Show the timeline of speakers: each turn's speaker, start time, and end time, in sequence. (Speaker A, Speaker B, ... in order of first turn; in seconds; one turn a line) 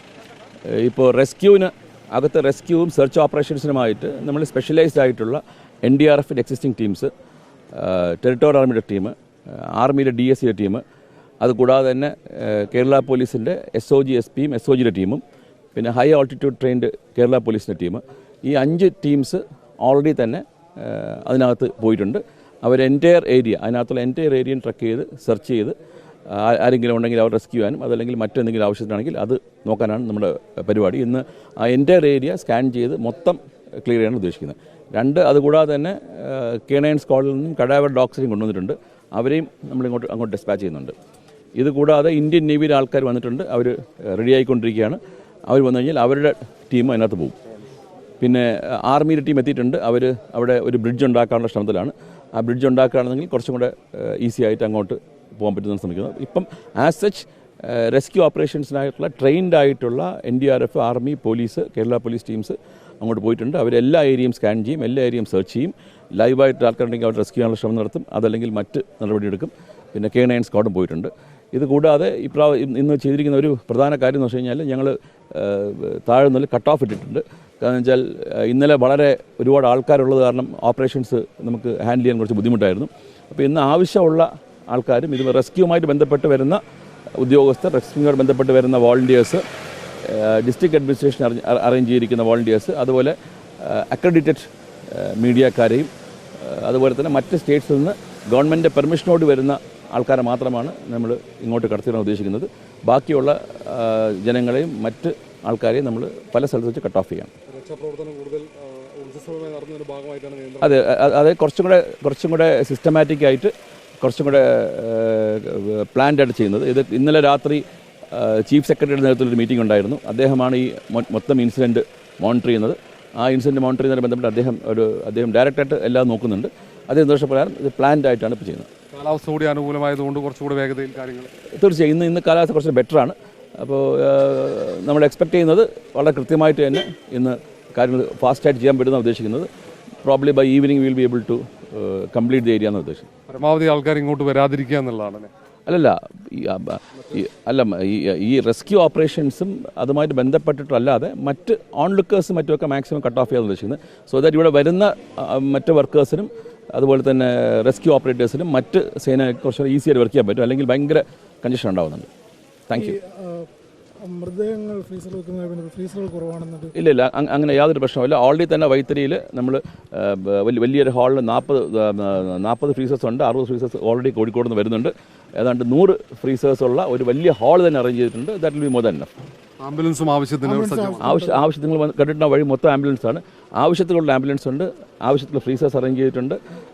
Speaker A: 0.7-7.1
Speaker A: 7.7-10.8
Speaker A: 11.4-15.2
Speaker A: 15.7-25.8
Speaker A: 26.3-40.9
Speaker A: 41.6-47.4
Speaker A: 48.2-86.6
Speaker A: 87.2-89.4
Speaker A: 90.0-107.3
Speaker B: 107.5-110.9
Speaker A: 110.6-128.7
Speaker B: 128.9-131.3
Speaker A: 131.5-139.5
Speaker A: 140.0-143.1
Speaker B: 143.3-145.3
Speaker A: 145.7-162.1
Speaker A: 162.7-163.0
Speaker C: 162.7-163.5
Speaker C: 164.0-166.7
Speaker A: 166.7-179.1
Speaker B: 179.6-181.1
Speaker C: 180.4-181.4
Speaker A: 181.0-186.4